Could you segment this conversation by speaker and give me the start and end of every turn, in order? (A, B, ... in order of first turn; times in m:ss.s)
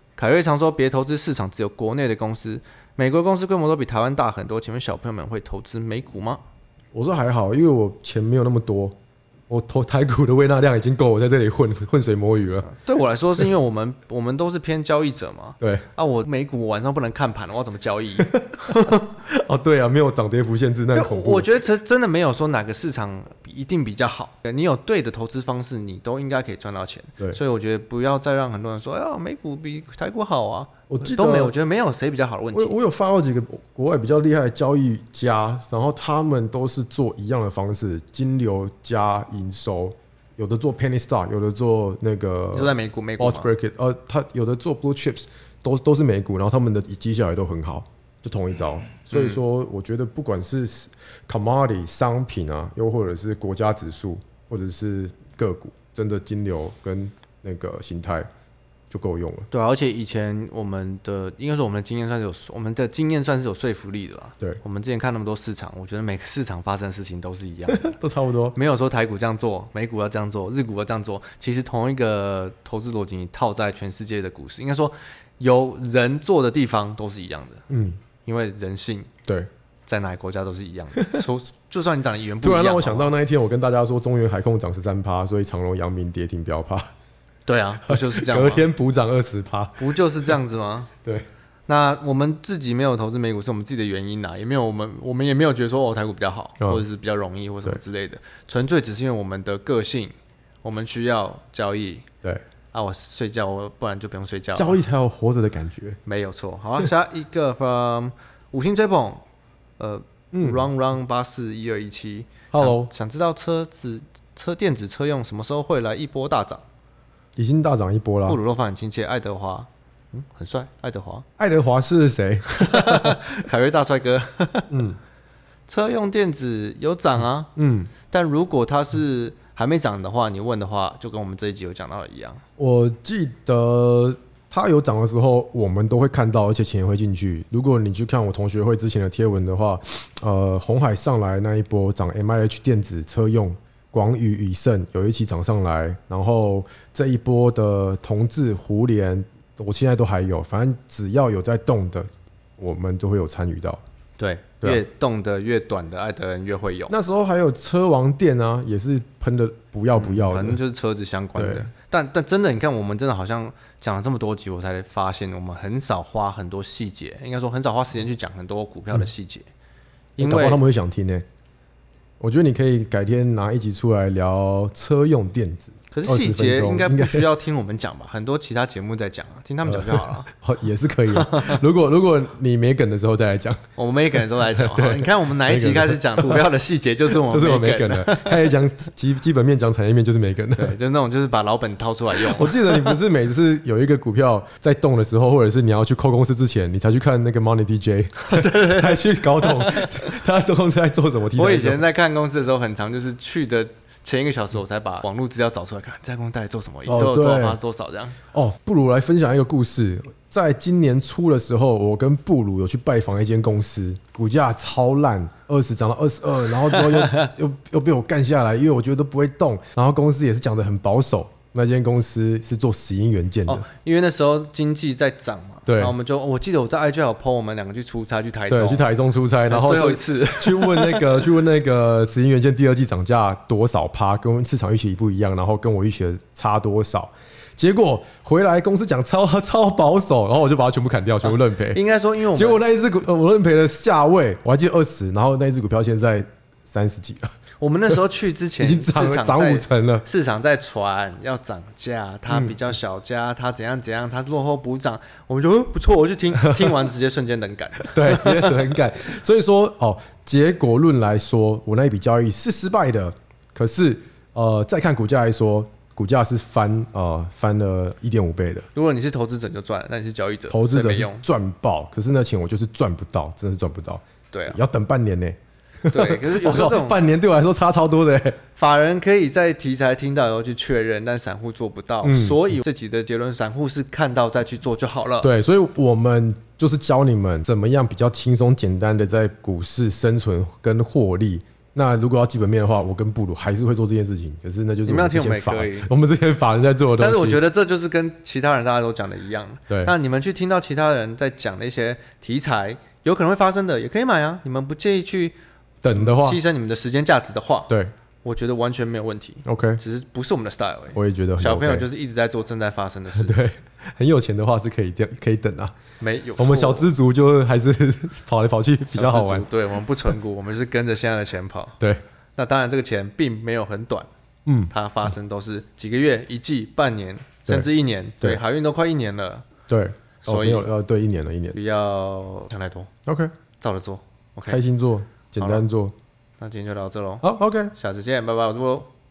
0:00.2-0:06.4 A
0:06.9-0:09.0 B
0:09.5-0:12.7 B
0:12.6-0:19.0 A
0:15.6-0:15.8 B
0:18.2-0:21.5 B
0:20.9-0:32.7 A
0:30.9-0:31.5 B
0:32.5-0:58.3 B
0:42.5-0:43.5 A
0:49.1-0:49.4 A
0:58.9-0:59.5 B
0:59.5-1:07.9 A
1:07.7-1:08.6 B
1:08.5-1:17.6 A
1:17.7-1:18.0 B
1:18.2-1:19.1 A
1:19.9-1:23.1 A
1:22.4-1:26.9 B
1:27.5-1:28.7 A
1:27.9-1:30.3 B
1:29.8-1:30.9 A
1:31.7-1:42.1 A
1:42.7-1:44.8 A
1:44.5-1:46.0 B
1:46.0-1:49.2 A
1:49.8-1:56.6 A
1:50.3-1:50.7 B
1:52.5-1:52.9 B
1:57.4-1:58.4 B
1:58.2-2:01.2 A
2:01.4-2:03.2 B
2:02.5-2:04.8 A
2:04.7-2:05.0 B
2:05.7-2:07.5 A
2:07.6-2:07.9 B
2:08.1-2:12.4 A
2:12.6-2:33.8 B
2:34.2-2:36.9 A
2:36.9-2:40.6 B
2:40.0-2:49.5 A
2:41.4-2:41.7 B
2:50.2-2:50.6 A
2:50.2-2:51.2 B
2:52.2-2:57.3 B
2:55.9-3:00.3 A
2:59.6-3:03.6 B
3:01.1-3:01.6 A
3:03.8-3:08.4 A
3:04.6-3:06.5 B
3:07.1-3:10.8 B
3:10.6-3:12.8 A
3:12.2-3:21.8 B
3:18.2-3:19.9 A
3:21.4-3:28.2 A
3:26.8-3:27.6 B
3:28.3-3:43.6 B
3:36.7-3:37.3 A
3:43.4-3:48.9 A
3:45.7-3:45.9 B
3:48.5-4:01.8 B
3:49.5-3:51.2 A
4:01.2-4:02.6 A
4:02.3-4:07.3 B
4:07.6-4:18.6 A
4:08.6-4:10.0 B
4:12.3-4:12.6 B
4:16.4-4:16.8 B
4:17.8-4:28.7 B
4:28.7-4:31.2 A
4:30.5-4:38.4 B
4:34.3-4:34.6 A
4:35.9-4:37.0 A
4:38.6-4:45.3 A
4:42.0-4:42.6 B
4:45.2-4:57.4 B
4:54.8-4:55.9 A
4:57.0-5:05.4 A
4:59.7-4:59.9 B
5:05.8-5:06.4 B
5:05.9-5:07.7 A
5:07.7-5:07.9 B
5:08.2-5:13.4 A
5:09.4-5:09.8 B
5:10.9-5:11.9 B
5:13.1-5:15.7 B
5:16.0-5:16.9 A
5:16.4-5:19.5 B
5:18.9-5:21.7 A
5:22.4-5:24.1 A
5:24.4-5:25.1 B
5:24.7-5:29.4 A
5:29.7-5:31.6 B
5:30.2-5:30.7 A
5:31.5-5:32.9 A
5:33.0-5:33.3 B
5:33.6-5:34.6 A
5:34.5-5:35.9 B
5:35.4-5:35.6 A
5:36.4-5:38.9 A
5:37.2-5:37.7 B